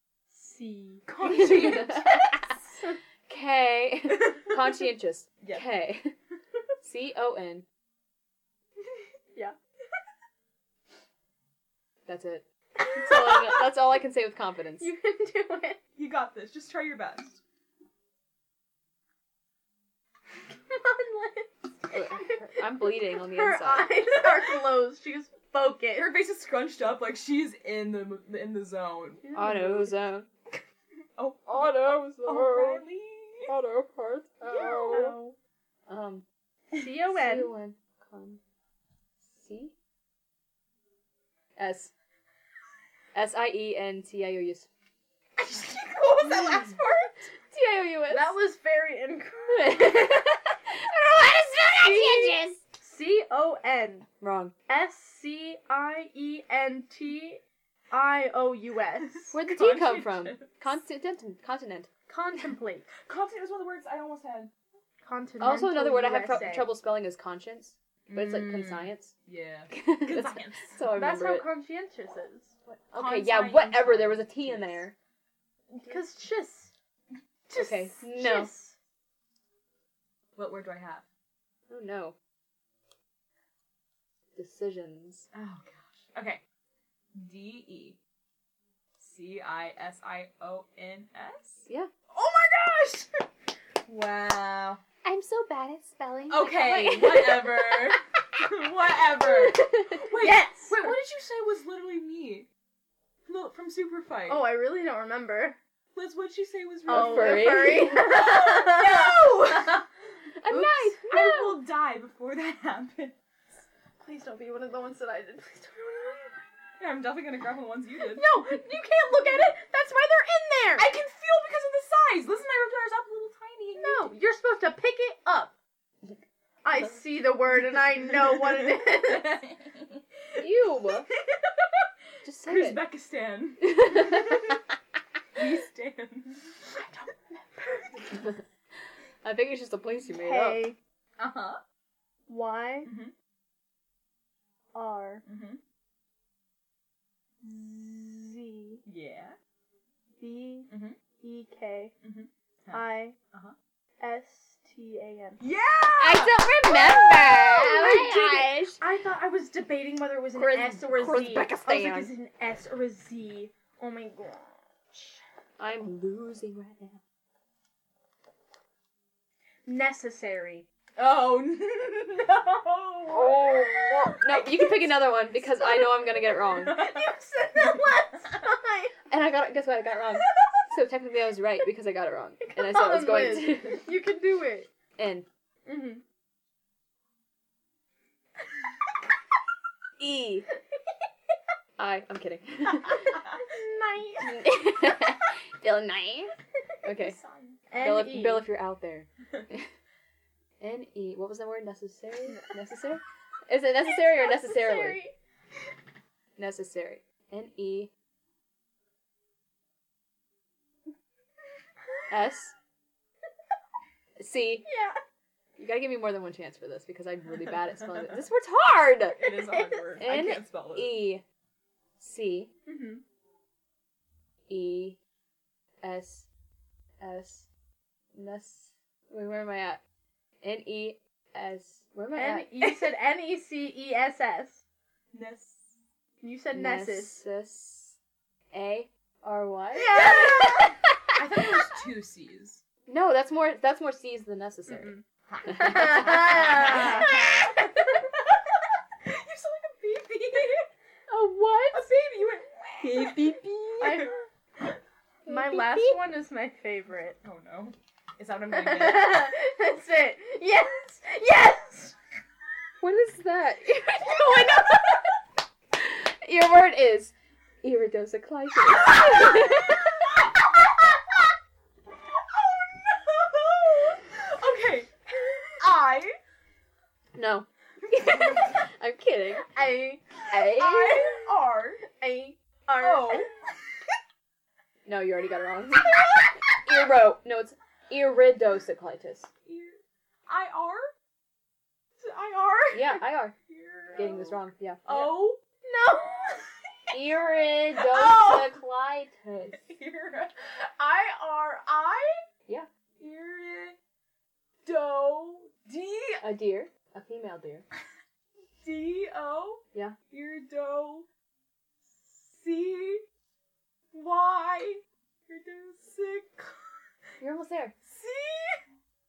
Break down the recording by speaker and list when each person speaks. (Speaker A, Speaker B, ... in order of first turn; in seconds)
Speaker A: 0.3-3.0, 12.8-13.6, 14.8-15.8, 20.7-26.1, 29.2-30.0, 34.5-35.4, 36.7-37.5, 48.1-50.2, 51.8-54.1, 54.7-59.4, 62.1-62.9, 65.0-66.7, 70.9-72.5, 75.8-76.7, 77.5-78.8, 100.0-100.9, 104.3-105.6, 106.9-109.8, 110.5-111.0, 114.0-116.4, 118.1-120.9, 123.8-125.5, 126.6-129.5, 136.8-138.2, 140.1-140.8, 142.3-142.9, 144.7-145.2, 147.4-148.8, 150.2-151.9, 152.7-153.2, 154.0-155.4, 157.5-165.2, 169.7-170.7, 173.5-178.9, 182.4-184.7, 185.7-186.0, 193.3-194.6, 197.7-198.5, 203.9-205.1, 214.6-215.0, 219.4-220.0, 222.7-223.0, 232.1-234.6, 236.2-237.2, 239.7-240.8, 244.7-247.4, 253.8-254.2, 255.3-257.2, 258.5-261.9, 279.5-280.1, 281.9-283.3, 295.6-296.4
Speaker B: 1.1-2.4, 4.2-4.6, 5.4-5.7, 16.0-17.4, 25.9-29.2, 31.2-33.5, 45.4-47.3, 59.3-60.6, 63.0-64.5, 68.1-70.8, 72.9-74.8, 80.3-81.0, 85.3-86.4, 87.1-88.0, 89.0-93.2, 93.9-94.8, 96.3-102.5, 103.3-104.4, 105.9-109.9, 111.1-113.2, 116.8-118.4, 120.8-124.1, 128.4-131.8, 132.4-134.6, 135.3-136.6, 141.2-141.6, 142.8-143.1, 145.2-145.6, 148.8-149.4, 150.7-151.0, 152.0-153.5, 155.4-156.4, 170.9-173.5, 176.6-177.9, 196.9-197.6, 219.2-221.0, 235.1-235.7, 239.9-242.6, 245.3-250.7, 251.7-254.1, 257.2-259.3, 268.8-269.7, 272.1-274.9, 275.6-276.1, 277.9-278.6, 280.3-281.8, 282.8-283.3, 285.8-286.8, 289.4-290.9, 292.0-295.4, 297.7-298.6, 299.5-302.2, 303.0-303.8, 304.6-306.2, 308.6-311.1, 312.3-313.0, 313.9-316.6, 317.8-318.6
Speaker C: 1.2-2.6, 3.3-6.1, 6.8-7.7, 12.1-14.9, 21.9-23.9, 29.3-30.3, 31.5-32.8, 33.5-35.2, 35.9-36.2, 37.1-38.4, 39.2-39.7, 41.6-41.9, 43.1-44.7, 46.2-46.7, 47.5-48.4, 49.5-52.6, 54.2-54.5, 59.3-61.9, 65.4-69.1, 69.7-71.5, 72.7-74.9, 77.5-78.5, 81.7-82.1, 84.3-85.2, 95.0-98.0, 99.2-100.1, 106.9-108.0, 110.4-111.6, 130.4-131.1, 132.2-132.8, 133.6-134.6, 139.2-140.6, 156.0-158.8, 160.3-162.1, 165.6-167.0, 173.1-176.8, 179.1-183.9, 185.0-185.2, 190.0-190.4, 191.8-193.2, 194.2-197.2, 197.8-199.7, 200.6-205.0, 206.4-207.9, 212.1-212.5, 214.2-214.7, 215.6-219.4, 220.0-221.2, 222.0-222.5, 224.5-225.0, 225.8-226.2, 227.0-227.5, 228.1-229.8, 230.4-232.9, 236.5-238.0, 238.5-240.6, 242.9-244.9, 245.5-247.4, 251.1-251.8, 252.8-253.5, 255.2-256.0, 262.8-265.2, 265.7-270.2, 277.1-279.5, 280.3-281.2, 284.8-289.3, 292.7-293.3, 293.9-295.1, 296.9-299.7, 306.2-307.6, 317.2-317.7